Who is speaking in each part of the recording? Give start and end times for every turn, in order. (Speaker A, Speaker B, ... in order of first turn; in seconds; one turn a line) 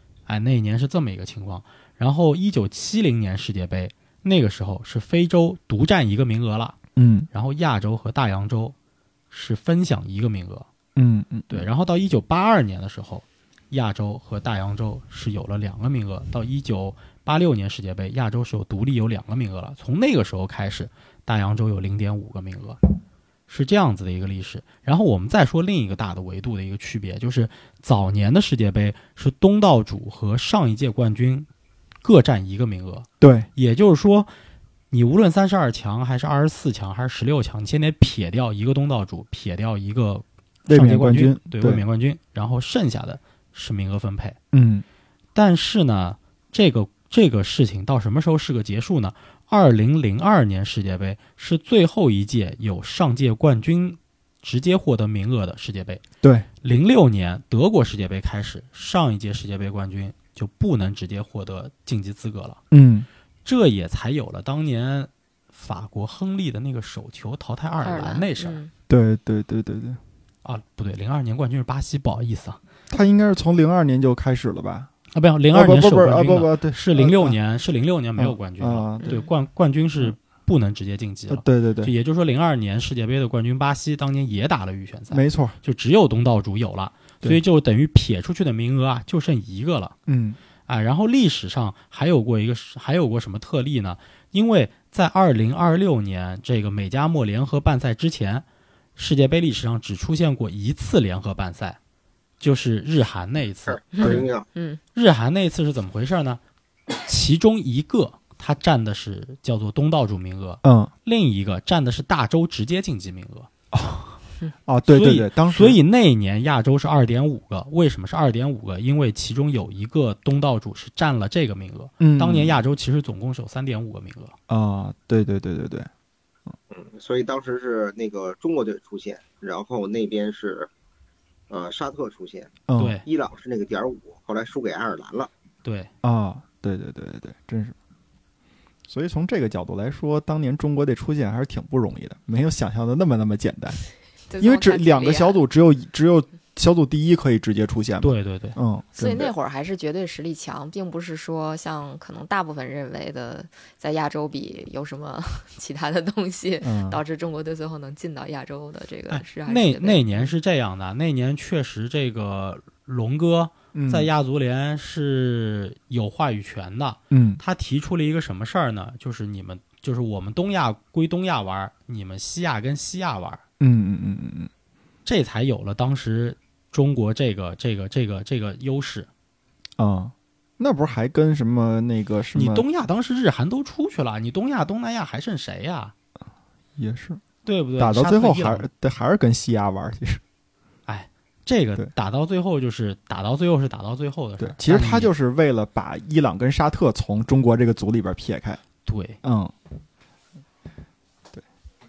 Speaker A: 0.3-6.8
Speaker B: 7.0-7.3
Speaker A: 7.3-8.8
Speaker A: 9.3-10.7
Speaker B: 11.0-11.7
Speaker A: 11.5-22.8
Speaker A: 23.5-31.5
Speaker A: 32.0-34.3
Speaker B: 33.2-33.5
Speaker A: 34.9-44.4
Speaker B: 40.7-41.8
Speaker B: 44.5-44.9
Speaker A: 45.4-56.0
Speaker B: 56.2-56.5
Speaker A: 56.6-62.6
Speaker B: 62.7-63.1
Speaker A: 63.5-68.6
Speaker C: 67.8-68.7
Speaker B: 68.9-70.0
Speaker A: 70.4-72.6
Speaker B: 72.9-74.9
Speaker A: 75.1-90.0
Speaker B: 75.5-77.4
Speaker B: 78.2-79.2
Speaker C: 79.0-79.3
Speaker B: 81.3-81.9
Speaker B: 85.1-85.5
Speaker B: 90.1-90.4
Speaker A: 90.7-98.5
Speaker A: 99.0-101.8
Speaker A: 102.4-104.3
Speaker D: 103.7-104.5
Speaker C: 104.0-104.8
Speaker A: 105.0-106.4
Speaker A: 107.0-113.5
Speaker B: 110.6-110.9
Speaker B: 113.7-115.8
Speaker A: 114.9-124.3
Speaker B: 122.0-122.6
Speaker B: 124.5-125.9
Speaker D: 126.7-130.7
Speaker D: 131.5-135.3
Speaker B: 132.7-133.0
Speaker A: 132.8-133.1
Speaker A: 135.6-135.9
Speaker B: 136.0-137.8
Speaker B: 138.9-143.8
Speaker C: 144.3-145.4
Speaker B: 144.4-149.3
Speaker A: 148.0-148.6
Speaker C: 148.9-160.3
Speaker B: 156.6-157.0
Speaker A: 159.1-173.4
Speaker B: 163.7-164.1
Speaker B: 167.1-167.4
Speaker B: 173.6-174.5
Speaker A: 175.1-179.1
Speaker B: 179.8-182.7
Speaker A: 182.3-185.9
Speaker B: 186.8-187.2
Speaker A: 187.4-188.7
Speaker B: 187.8-190.2
Speaker A: 190.9-195.1
Speaker B: 194.4-198.6
Speaker A: 198.8-199.2
Speaker B: 199.2-199.5